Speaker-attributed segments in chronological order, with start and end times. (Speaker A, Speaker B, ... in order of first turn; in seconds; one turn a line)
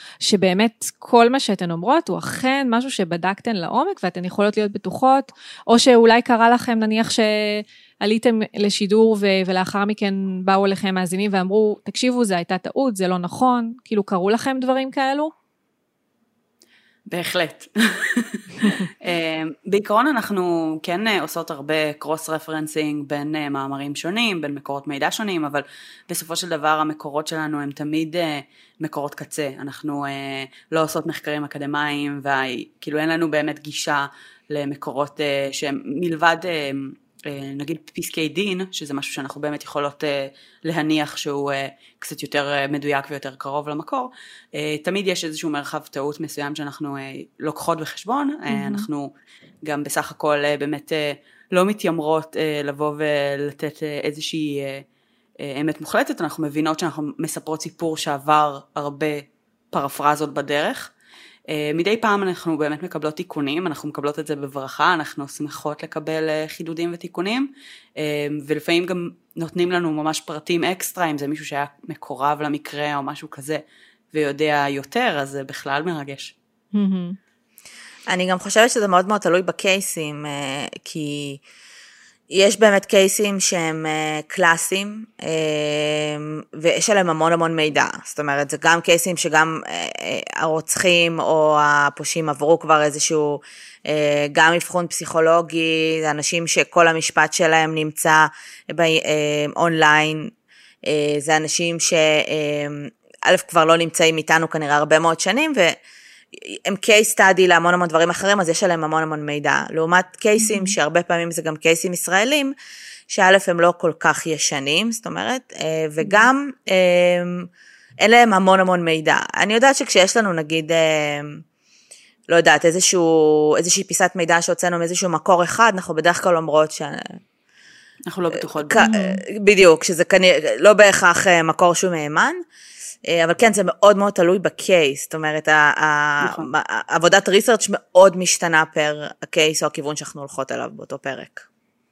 Speaker A: 0.2-15.3
Speaker B: 17.1-49.1
Speaker A: 48.5-48.9
Speaker B: 49.6-54.8
Speaker B: 55.4-60.9
Speaker B: 61.5-76.3
Speaker A: 76.7-77.2
Speaker C: 78.1-81.4
Speaker C: 82.3-100.3
Speaker C: 100.8-105.8
Speaker C: 106.3-112.5
Speaker A: 110.4-110.7
Speaker C: 113.1-117.5
Speaker C: 118.0-121.4
Speaker C: 122.3-127.2
Speaker B: 128.1-128.8
Speaker C: 128.4-132.4
Speaker A: 128.8-129.2
Speaker C: 133.1-141.4
Speaker B: 136.2-136.5